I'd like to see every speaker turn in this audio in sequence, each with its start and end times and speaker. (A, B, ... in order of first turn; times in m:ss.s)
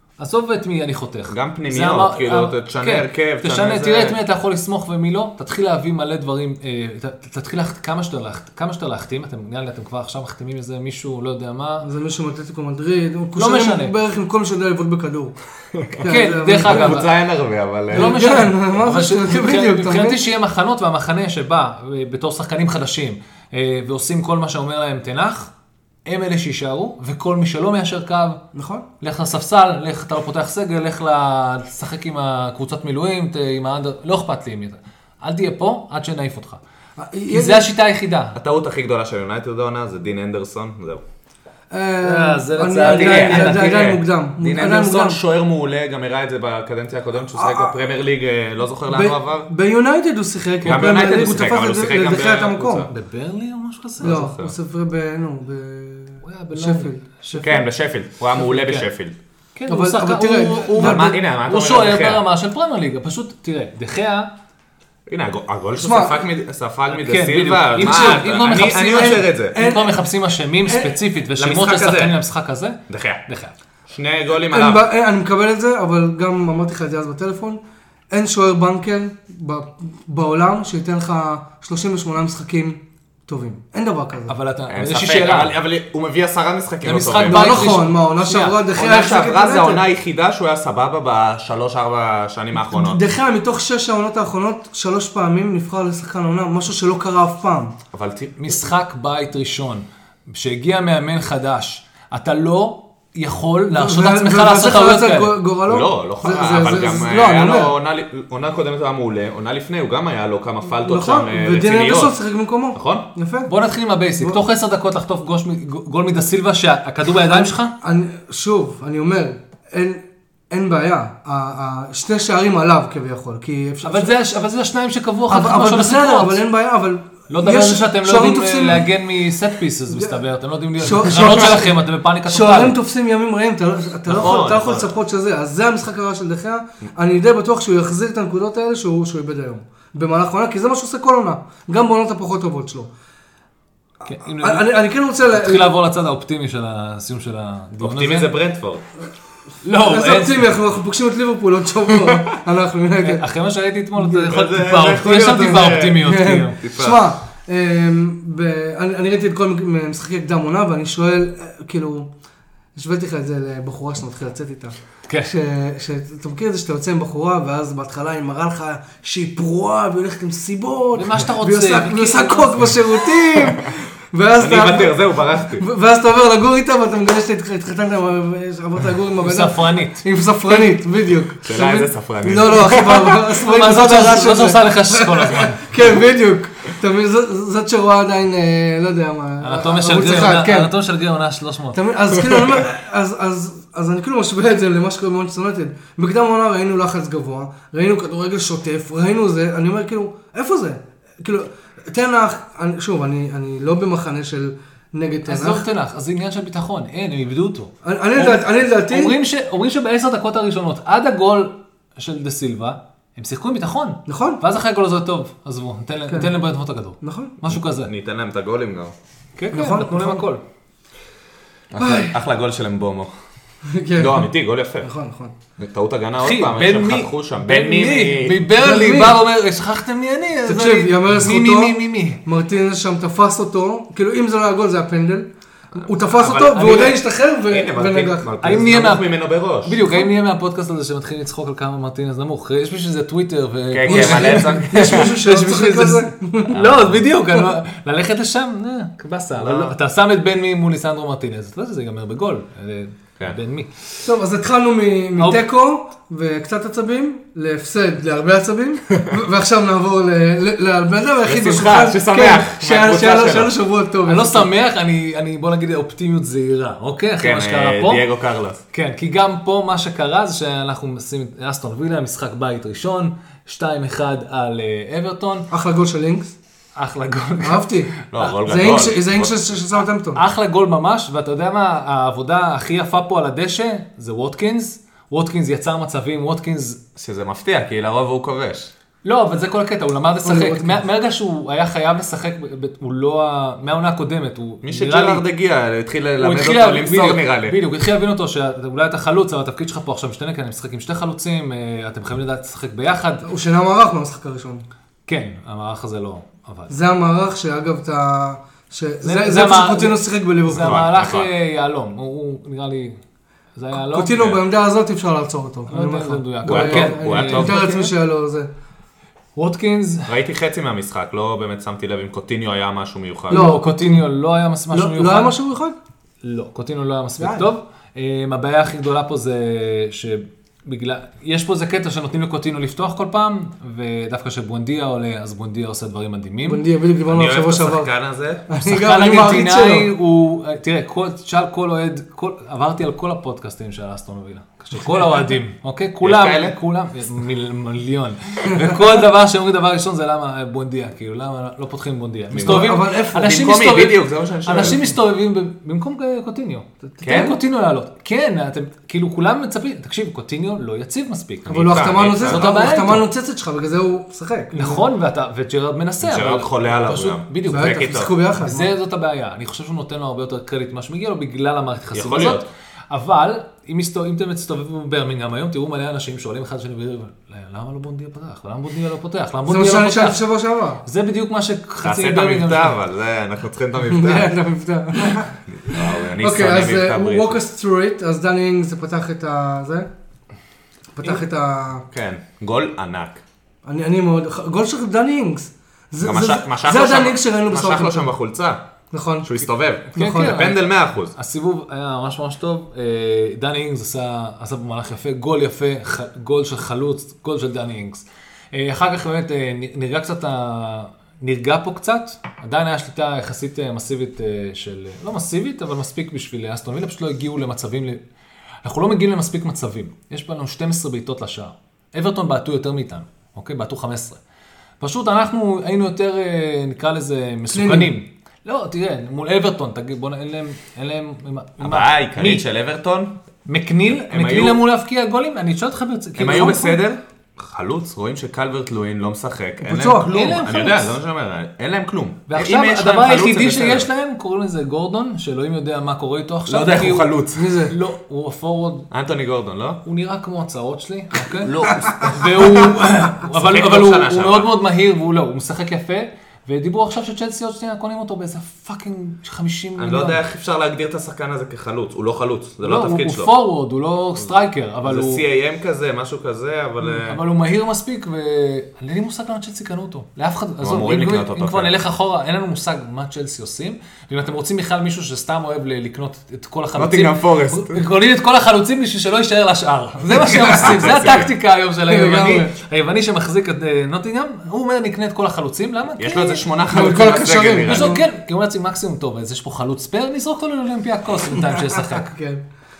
0:00.2-0:11.9 A
0:01.3-0:04.2 B
0:11.8-0:15.4 C
0:13.4-0:13.9 A
0:15.9-0:17.0 C
0:16.0-0:17.1 A
0:16.6-0:18.2 B
0:17.9-0:25.5 A
0:17.9-0:20.2 C
0:26.0-0:28.4 A
0:28.5-0:28.8 C
0:29.0-0:36.6 A
0:37.0-0:37.7 C
0:37.3-0:38.4 A
0:38.3-0:41.0 B
0:41.7-0:45.2 C
0:42.0-0:43.7 A
0:42.8-0:49.5 B
0:47.3-0:47.8 C
0:48.9-0:52.9 C
0:50.6-0:51.0 A
0:50.6-0:52.9 B
0:52.9-0:54.2 A
0:54.0-0:54.5 B
0:54.0-0:57.6 C
0:56.2-0:57.5 A
0:57.4-0:59.2 B
0:58.4-0:58.9 A
0:59.5-1:04.3 A
0:59.7-1:01.1 C
1:00.8-1:02.2 B
1:05.1-1:09.5 B
1:05.8-1:06.2 C
1:06.9-1:13.5 A
1:07.8-1:10.0 C
1:10.6-1:11.0 C
1:11.4-1:12.2 B
1:12.9-1:13.2 B
1:13.9-1:14.8 B
1:14.4-1:24.3 C
1:24.3-1:25.6 A
1:24.7-1:27.7 B
1:26.8-1:28.6 A
1:27.2-1:29.8 C
1:28.7-1:33.0 B
1:32.6-1:37.8 C
1:37.9-1:38.6 B
1:38.4-1:45.4 A
1:43.7-1:47.7 C
1:45.7-1:52.2 B
1:50.8-1:53.5 C
1:52.7-1:53.1 B
1:53.5-1:57.7 A
1:57.2-2:04.1 C
2:03.8-2:06.4 A
2:05.3-2:08.9 C
2:07.3-2:12.8 A
2:09.9-2:10.2 C
2:10.8-2:22.9 C
2:14.1-2:15.0 B
2:24.0-2:24.8 A
2:24.1-2:25.7 C
2:25.3-2:28.3 A
2:27.8-2:28.8 B
2:29.6-2:30.5 A
2:29.7-2:33.2 C
2:33.0-2:36.6 A
2:34.0-2:34.3 C
2:34.3-2:36.0 B
2:36.0-2:42.1 C
2:36.6-2:37.0 B
2:42.7-3:10.7 C
2:50.9-2:52.7 A
2:54.4-2:55.7 B
2:59.2-3:00.0 A
3:01.4-3:03.2 B
3:03.3-3:05.6 A
3:09.4-3:11.8 A
3:11.7-3:25.6 C
3:25.2-3:37.9 A
3:27.8-3:29.2 C
3:34.1-3:34.4 C
3:37.0-3:37.3 C
3:37.5-3:38.9 B
3:39.4-3:40.4 A
3:39.5-3:40.2 C
3:41.7-3:43.1 B
3:41.8-3:42.2 C
3:43.6-3:45.3 C
3:44.0-3:44.9 B
3:45.6-3:48.4 B
3:46.2-3:52.2 A
3:48.6-3:49.2 C
3:50.4-3:58.3 C
3:55.8-3:59.8 B
3:58.4-4:14.0 A
4:03.7-4:05.2 B
4:03.9-4:06.5 C
4:06.5-4:07.0 B
4:09.4-4:09.7 B
4:14.0-4:24.5 C
4:21.2-4:23.5 B
4:24.0-4:28.0 A
4:27.2-4:28.6 B
4:28.7-4:35.5 A
4:35.5-4:36.3 C
4:36.8-4:37.7 A
4:37.4-4:40.2 C
4:38.1-4:39.3 B
4:40.1-4:46.8 A
4:47.0-4:48.7 B
4:49.0-4:55.2 A
4:50.2-4:50.8 C
4:54.6-4:57.6 B
4:56.2-5:03.3 A
5:03.2-5:04.6 C
5:05.1-5:06.7 A
5:06.7-5:10.9 C
5:09.0-5:13.0 A
5:10.5-5:11.3 B
5:13.6-5:14.3 A
5:13.8-5:18.5 C
5:15.7-5:17.8 A
5:16.4-5:17.9 B
5:19.4-5:20.2 A
5:20.1-5:23.4 B
5:23.3-5:25.4 A
5:23.3-5:24.0 C
5:24.7-5:25.8 C
5:26.2-5:36.6 A
5:27.2-5:27.5 C
5:36.4-5:37.9 C
5:37.1-5:38.4 B
5:38.5-5:39.9 C
5:38.6-6:03.0 A
5:46.0-5:46.6 B
5:52.3-5:54.9 B
5:52.4-5:53.3 C
5:57.0-5:57.4 B
5:57.1-5:57.3 C
6:01.5-6:02.5 B
6:01.5-6:04.8 C
6:04.5-6:20.2 A
6:06.0-6:08.1 B
6:07.5-6:08.7 C
6:11.9-6:12.5 B
6:19.5-6:20.8 C
6:20.8-6:22.8 A
6:21.8-6:24.3 B
6:23.8-6:29.9 C
6:25.5-6:27.4 B
6:31.0-6:31.8 C
6:31.9-6:33.2 B
6:33.6-6:38.1 C
6:36.0-6:38.6 B
6:38.9-6:39.4 C
6:39.2-6:41.1 B
6:39.9-6:58.0 A
6:40.0-6:40.4 C
6:58.6-7:04.2 A
7:04.8-7:12.4 A
7:07.5-7:07.9 C
7:11.6-7:13.1 B
7:13.5-7:16.7 A
7:13.9-7:14.6 B
7:16.2-7:23.9 B
7:16.3-7:16.7 C
7:19.6-7:20.1 C
7:20.1-7:21.0 A
7:22.3-7:28.9 A
7:26.4-7:27.5 B
7:27.3-7:27.7 C
7:28.9-7:29.8 B
7:29.8-7:40.2 A
7:31.4-7:34.5 B
7:39.8-7:43.3 B
7:42.6-7:45.2 A
7:44.8-7:47.2 B
7:47.0-8:06.4 A
7:50.6-7:51.7 B
7:56.8-7:57.8 B
8:00.2-8:01.3 B
8:01.8-8:02.5 C
8:06.0-8:08.0 B
8:06.7-8:08.0 C
8:07.6-8:12.1 A
8:11.3-8:12.4 C